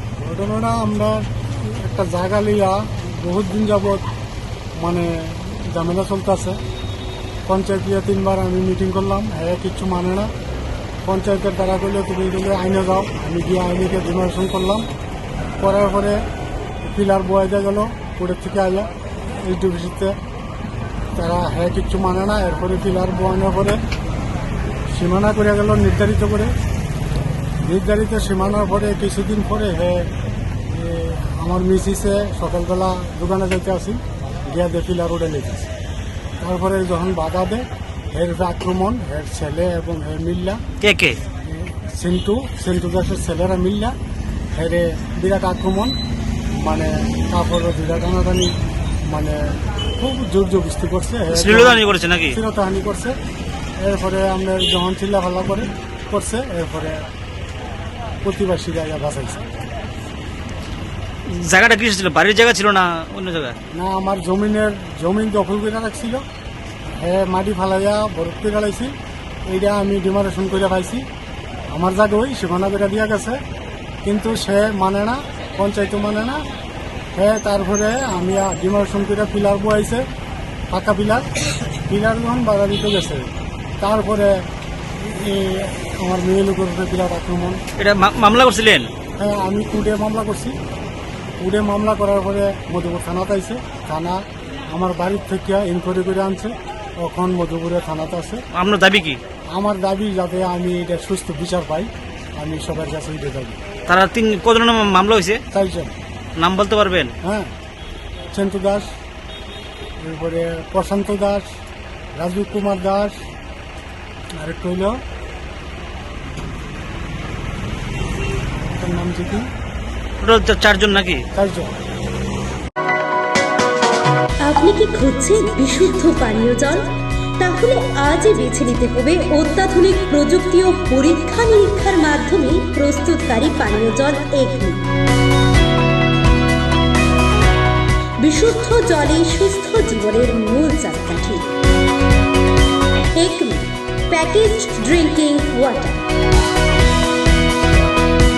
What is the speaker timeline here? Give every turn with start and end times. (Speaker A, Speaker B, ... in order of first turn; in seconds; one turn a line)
Speaker A: 0.2-4.1
Speaker A: 4.8-6.6
Speaker A: 7.5-10.3
Speaker A: 11.1-14.9
Speaker A: 15.6-16.2
Speaker A: 16.9-20.2
Speaker A: 21.1-23.8
Speaker A: 24.9-26.5
Speaker A: 27.6-30.1
Speaker A: 30.7-35.7
Speaker A: 36.4-40.6
Speaker B: 40.8-41.2
Speaker A: 41.5-44.0
Speaker A: 44.5-46.0
Speaker A: 46.5-48.5
Speaker A: 49.1-53.2
Speaker B: 51.3-52.4
Speaker A: 53.8-57.1
Speaker A: 58.2-59.4
Speaker B: 61.3-63.6
Speaker A: 63.7-66.2
Speaker A: 67.0-69.0
Speaker A: 69.5-71.0
Speaker A: 71.7-73.4
Speaker A: 74.0-76.4
Speaker A: 77.2-80.0
Speaker A: 80.7-81.2
Speaker A: 81.9-84.5
Speaker A: 85.0-87.6
Speaker B: 87.8-88.9
Speaker A: 89.2-90.6
Speaker A: 91.4-98.4
Speaker B: 98.5-99.2
Speaker A: 99.5-103.6
Speaker B: 103.9-105.4
Speaker A: 105.5-105.9
Speaker B: 106.4-107.1
Speaker A: 107.2-107.5
Speaker A: 108.3-108.9
Speaker A: 110.0-111.5
Speaker A: 112.2-113.2
Speaker A: 114.4-115.0
Speaker A: 118.7-119.5
Speaker B: 120.2-121.2
Speaker A: 121.3-121.7
Speaker C: 124.4-134.8
Speaker C: 138.2-141.5
Speaker C: 143.2-146.0